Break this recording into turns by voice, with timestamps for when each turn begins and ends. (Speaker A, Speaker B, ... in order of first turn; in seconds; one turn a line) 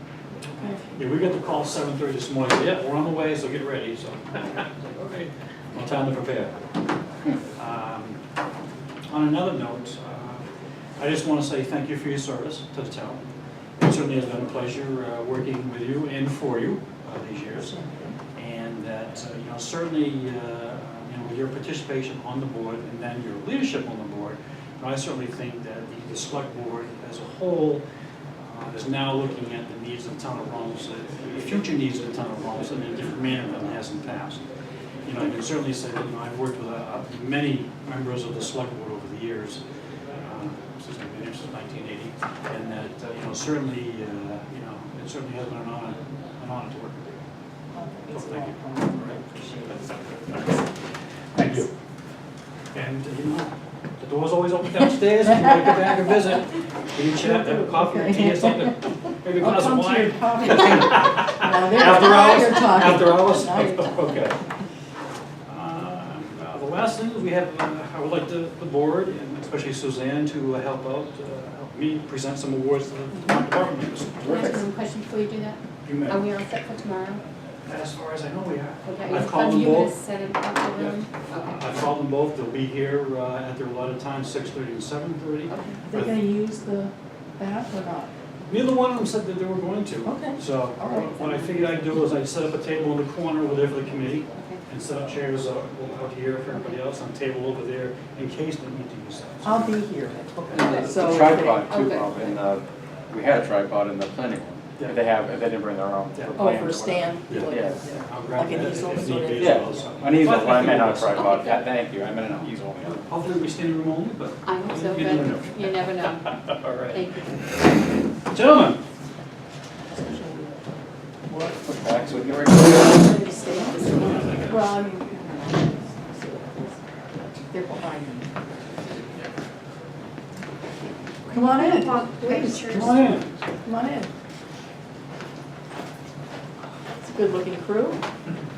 Speaker A: 0.5-0.8
Speaker B: 0.9-6.5
Speaker B: 7.5-8.2
Speaker B: 9.1-10.4
Speaker B: 11.0-13.2
Speaker B: 13.8-17.7
Speaker A: 17.5-18.2
Speaker B: 18.3-27.8
Speaker B: 28.4-34.4
Speaker B: 35.0-39.6
Speaker B: 40.1-47.2
Speaker A: 47.7-50.5
Speaker B: 48.1-49.2
Speaker B: 51.3-51.7
Speaker B: 52.7-64.4
Speaker A: 57.1-64.3
Speaker B: 65.5-74.6
Speaker C: 74.2-77.2
Speaker B: 75.8-76.3
Speaker B: 77.7-79.9
Speaker C: 78.8-81.6
Speaker B: 80.7-86.2
Speaker C: 85.5-85.8
Speaker A: 85.9-88.1
Speaker B: 88.5-99.8
Speaker A: 90.0-91.5
Speaker C: 94.4-94.6
Speaker A: 99.4-101.7
Speaker B: 100.5-101.0
Speaker D: 100.6-107.8
Speaker C: 101.5-102.1
Speaker B: 104.8-105.1
Speaker B: 106.1-106.8
Speaker A: 106.3-109.9
Speaker B: 107.3-111.2
Speaker D: 109.4-113.0
Speaker C: 111.1-111.7
Speaker B: 112.3-117.0
Speaker C: 114.5-117.5
Speaker B: 118.3-118.8
Speaker A: 119.9-120.6
Speaker A: 121.3-121.6
Speaker D: 121.6-123.1
Speaker A: 123.0-128.3
Speaker C: 123.1-124.4
Speaker A: 131.3-132.7
Speaker C: 131.3-133.2
Speaker B: 132.5-133.3
Speaker A: 133.6-134.1
Speaker A: 136.9-138.0